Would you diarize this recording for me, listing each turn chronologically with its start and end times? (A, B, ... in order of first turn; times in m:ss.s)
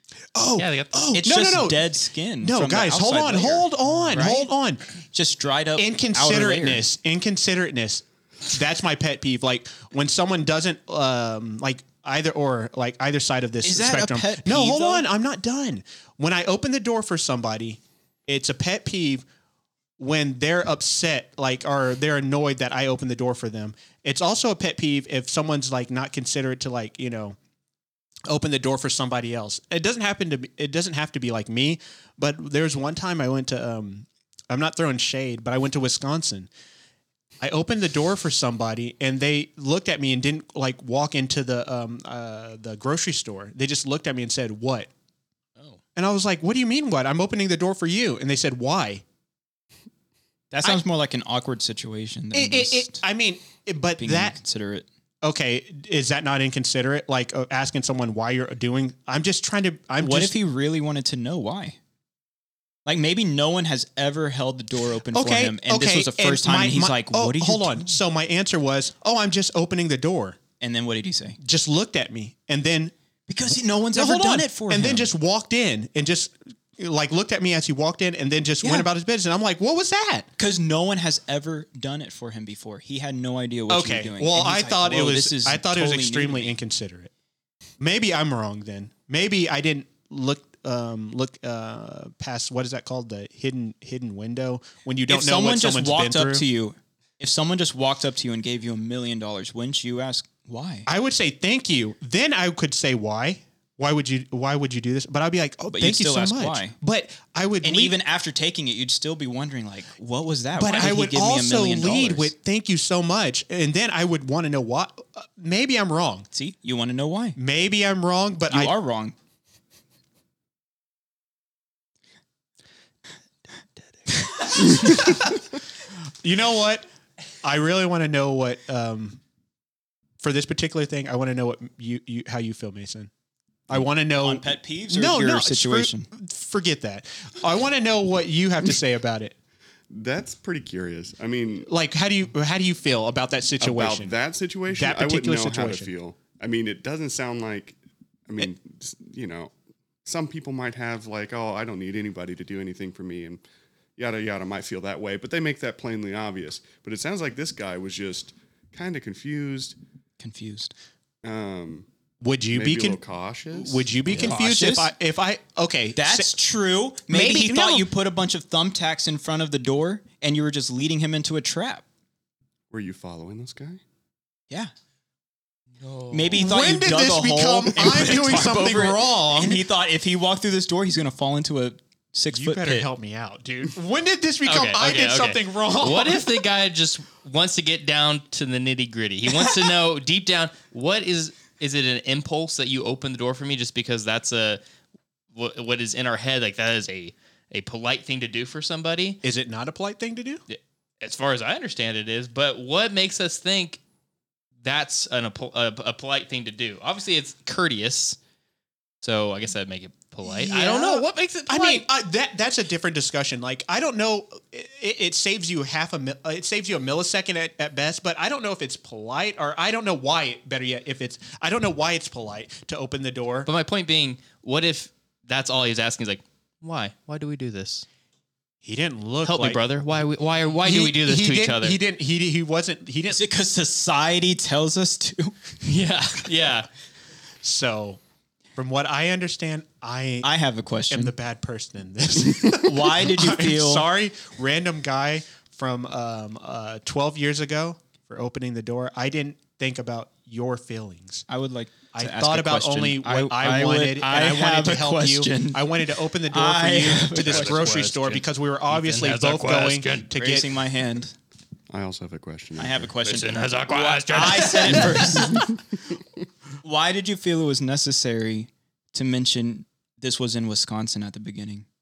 0:00.3-0:04.8 A
0:00.6-0:01.1 B
0:01.1-0:04.5 C
0:05.1-0:06.8 C
0:05.8-0:19.2 A
0:13.6-0:15.1 C
0:20.0-0:27.4 A
0:28.3-0:36.5 A
0:37.4-0:44.9 A
0:46.0-0:49.0 A
0:50.5-0:53.0 C
0:52.3-0:54.4 A
0:54.0-0:54.9 C
0:55.2-1:00.3 A
1:00.0-1:01.8 C
1:02.8-1:07.9 C
1:05.1-1:10.4 A
1:10.6-1:11.4 C
1:11.4-1:12.9 A
1:13.3-1:15.1 C
1:13.9-1:20.3 A
1:18.6-1:18.9 C
1:20.4-1:26.6 C
1:23.7-1:27.1 A
1:27.8-1:36.4 A
1:35.1-1:40.9 C
1:40.9-1:48.0 A
1:45.7-1:46.7 C
1:47.6-1:52.3 C
1:50.5-1:56.3 A
1:56.3-1:57.4 C
1:57.4-1:58.7 A
1:58.5-1:59.1 C
2:04.0-2:05.0 B
2:04.7-2:05.4 A
2:06.2-2:06.8 A
2:07.4-2:09.2 A
2:10.2-2:13.1 A
2:13.7-2:19.3 A
2:14.2-2:16.1 C
2:19.9-2:21.7 D
2:21.7-2:24.1 A
2:23.6-2:29.5 D
2:24.7-2:25.9 A
2:30.0-2:33.4 D
2:34.0-2:39.8 D
2:40.2-2:40.7 C
2:41.2-2:41.9 D
2:42.2-2:43.0 A
2:42.5-2:44.3 D
2:43.5-2:46.3 A
2:44.1-2:44.9 C
2:46.0-2:51.8 C
2:47.1-2:47.9 A
2:52.7-2:53.8 D
2:55.8-2:56.5 B
2:56.1-3:02.9 C
2:56.3-2:59.6 A
3:02.3-3:06.3 A
3:04.4-3:14.6 B
3:15.3-3:19.2 B
3:19.2-3:20.4 A
3:20.5-3:23.8 B
3:24.6-3:28.2 B
3:29.0-3:31.8 B
3:30.2-3:43.5 A
3:43.4-3:47.8 B
3:48.6-3:49.6 A
3:49.2-3:51.8 B
3:50.6-3:53.2 A
3:53.1-3:55.3 C
3:55.6-3:56.7 B
3:57.4-3:58.0 A
3:58.6-4:00.3 A
4:00.2-4:01.1 C
4:00.9-4:11.3 A
4:02.6-4:03.8 C
4:11.3-4:15.6 C
4:11.9-4:20.5 A
4:16.3-4:17.6 C
4:16.9-4:20.1 B
4:20.1-4:21.2 C
4:21.7-4:22.9 D
4:22.6-4:25.4 C
4:23.0-4:25.4 B
4:25.3-4:25.5 D
4:26.6-4:31.6 C